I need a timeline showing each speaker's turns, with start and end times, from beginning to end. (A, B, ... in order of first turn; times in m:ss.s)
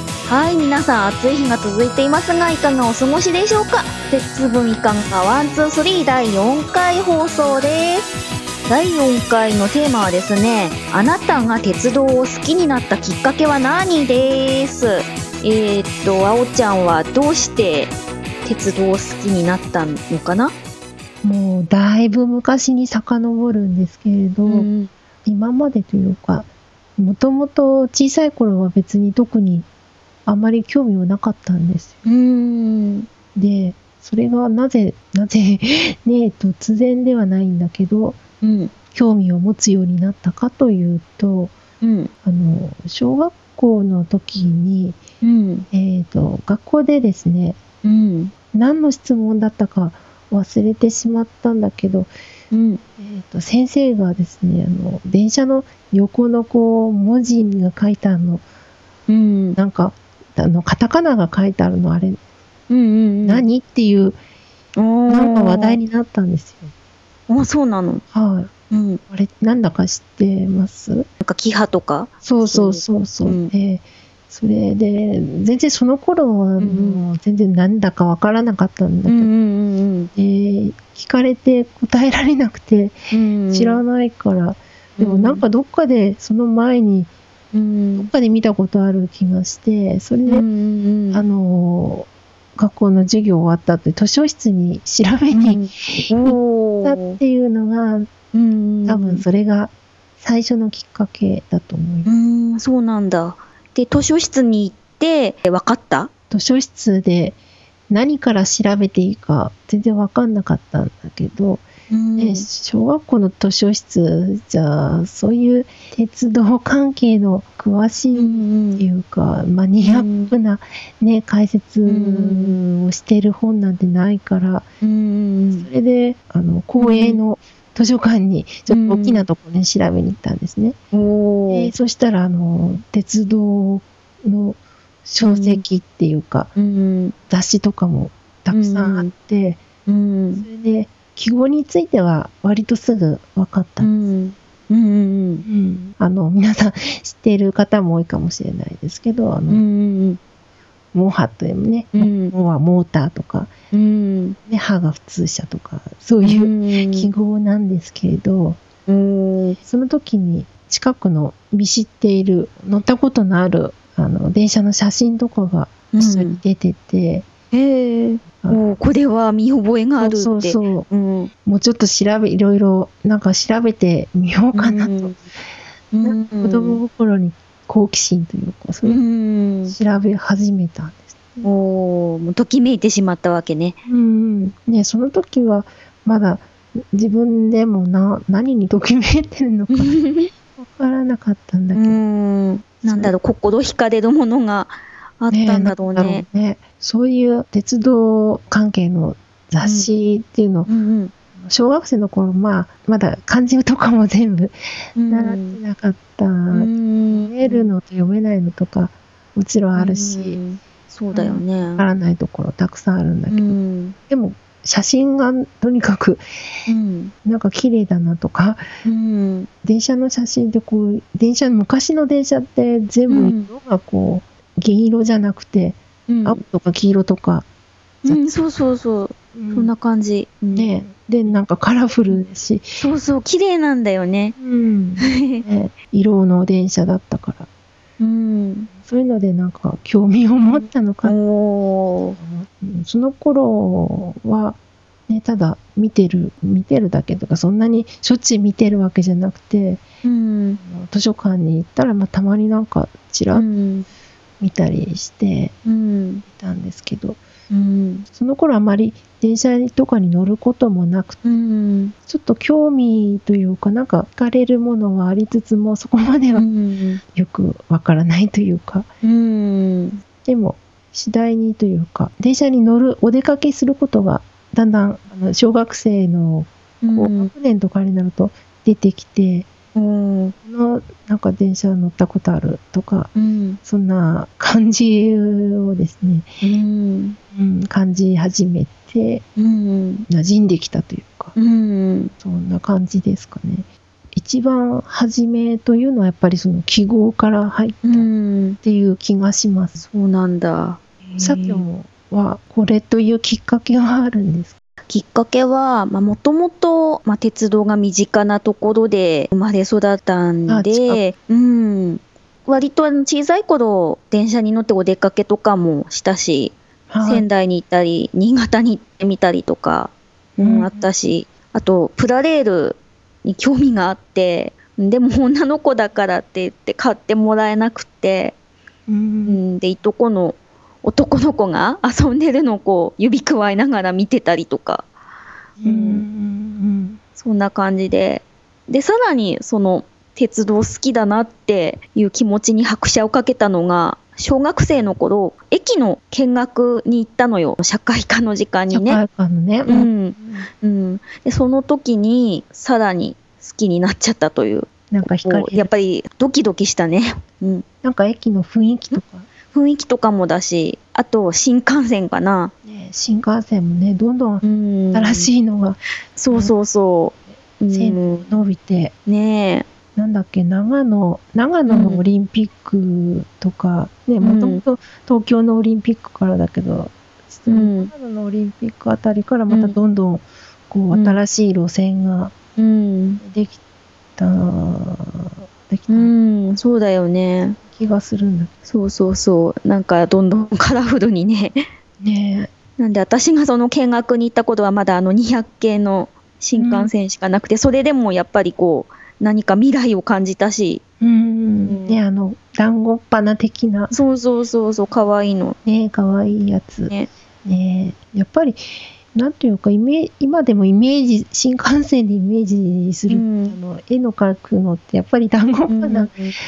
0:00.2-0:20.5 A
0:21.2-0:24.7 B
0:24.4-0:24.9 A
0:25.2-0:29.7 B
0:30.2-0:32.0 B
0:32.0-0:33.1 A
0:33.3-0:38.2 B
0:38.4-0:38.7 A
0:38.9-0:41.5 B
0:41.8-0:42.1 A
0:42.2-0:45.0 B
0:45.2-0:45.6 A
0:45.7-0:47.6 B
0:47.8-0:48.3 A
0:48.5-0:52.1 B
0:52.5-0:52.8 A
0:53.0-0:58.4 B
0:59.1-0:59.6 A
0:59.6-1:02.2 B
1:02.7-1:03.4 A
1:03.2-1:04.2 B
1:04.8-1:05.8 A
1:05.1-1:06.7 B
1:07.3-1:08.0 A
1:08.1-1:08.5 B
1:08.7-1:09.0 A
1:09.1-1:11.1 B
1:11.2-1:13.5 A
1:12.2-1:19.3 B
1:16.6-1:17.0 A
1:19.0-1:20.1 A
1:20.1-1:23.0 B
1:23.1-1:23.8 A
1:23.5-1:27.1 B
1:25.0-1:25.4 A
1:27.5-1:28.1 A
1:28.0-1:30.4 B
1:30.2-1:31.2 A
1:31.1-1:38.1 B
1:35.3-1:37.2 A
1:38.3-1:39.2 A
1:38.8-1:42.1 B
1:42.0-1:46.1 A
1:46.3-1:47.4 B
1:47.9-1:51.6 B
1:51.9-1:52.5 A
1:52.2-2:04.7 B
1:58.1-1:58.8 A
1:59.8-2:00.3 A
2:01.8-2:02.6 A
2:04.8-2:05.7 A
2:05.5-2:10.8 B
2:06.8-2:07.2 A
2:08.7-2:09.2 A
2:10.9-2:11.7 A
2:11.5-2:16.5 B
2:15.2-2:15.6 A
2:16.5-2:17.1 A
2:17.3-2:19.6 B
2:18.5-2:19.1 A
2:19.8-2:20.5 A
2:20.4-2:23.9 B
2:23.8-2:25.4 A
2:25.4-2:29.6 B
2:29.5-2:30.2 A
2:30.9-2:33.5 B
2:31.9-2:32.3 A
2:33.7-2:34.4 A
2:34.5-2:38.6 B
2:36.2-2:37.1 A
2:38.8-2:39.6 A
2:39.6-2:47.2 B
2:45.9-2:46.4 A
2:47.5-2:51.3 A
2:50.0-2:50.9 B
2:51.4-2:55.2 B
2:54.5-2:55.2 A
2:55.9-2:56.8 A
2:56.0-2:59.0 B
2:58.8-2:59.7 A
2:59.6-3:01.5 B
3:01.4-3:03.8 A
3:03.8-3:12.0 B
3:09.7-3:10.3 A
3:11.7-3:16.2 A
3:12.8-3:13.1 B
3:15.3-3:20.7 B
3:19.6-3:19.9 A
3:20.6-3:21.1 A
3:21.4-3:30.4 B
3:25.0-3:25.6 A
3:26.5-3:27.7 A
3:29.8-3:31.8 A
3:31.1-3:33.6 B
3:33.3-3:34.0 A
3:34.1-3:36.2 B
3:36.7-3:37.1 A
3:37.2-3:38.6 B
3:38.8-3:39.5 A
3:39.6-3:47.4 B
3:43.1-3:43.5 A
3:46.1-3:46.4 A
3:48.0-3:50.7 A
3:48.0-3:48.3 B
3:49.3-3:49.7 B
3:50.5-3:52.8 B
3:52.8-3:54.4 A
3:54.4-3:57.5 B
3:55.0-3:55.4 A
3:58.0-3:58.7 A
3:58.8-4:01.2 B
4:00.4-4:02.2 A
4:02.0-4:09.8 B
4:10.0-4:10.6 A
4:10.6-4:13.5 B
4:13.3-4:13.9 A
4:14.4-4:15.5 B
4:15.6-4:16.2 A
4:16.3-4:17.2 B
4:17.5-4:18.0 A
4:18.1-4:21.2 B
4:21.2-4:21.9 A
4:22.1-4:26.4 B
4:26.4-4:27.0 A
4:27.1-4:28.9 B
4:29.0-4:30.0 A
4:30.2-4:39.5 B
4:36.8-4:37.3 A
4:39.7-4:40.3 A
4:40.4-4:43.1 B
4:43.1-4:43.6 A
4:43.6-4:46.3 B
4:46.4-4:47.2 A
4:47.3-4:49.2 B
4:49.4-4:50.0 A
4:50.1-4:51.3 B
4:51.3-4:52.1 A
4:52.2-4:58.1 B
4:57.8-4:58.6 A
4:58.6-4:59.8 B
4:59.8-5:01.6 A
5:01.2-5:04.5 B
5:04.9-5:28.3 A
5:10.5-5:11.0 B
5:16.9-5:17.2 B
5:20.4-5:20.9 B
5:28.9-5:29.4 B
5:29.2-5:34.8 A
5:35.6-5:37.0 B
5:35.6-5:36.0 A
5:37.2-5:49.0 A
5:48.7-5:50.5 B
5:49.6-5:54.7 A
5:54.9-5:55.7 B
5:55.2-5:57.6 A
5:57.8-5:59.3 B
5:58.9-6:02.5 A
6:02.6-6:06.5 B
6:04.4-6:05.3 A
6:06.1-6:08.2 A
6:07.5-6:08.9 B
6:09.0-6:09.7 A
6:10.0-6:22.3 B
6:11.7-6:12.0 A
6:14.2-6:14.6 A
6:17.5-6:17.9 A
6:19.5-6:19.8 A
6:20.9-6:21.2 A
6:22.6-6:23.2 A
6:23.2-6:23.6 B
6:24.2-6:26.1 B
6:25.9-6:27.6 A
6:27.6-6:28.5 B
6:28.7-6:31.6 A
6:32.0-6:32.5 B
6:32.8-6:40.8 A
6:36.6-6:36.9 B
6:41.0-6:44.0 B
6:41.6-6:42.0 A
6:43.9-6:45.6 A
6:45.6-6:56.2 B
6:53.1-6:53.6 A
6:55.7-6:56.4 A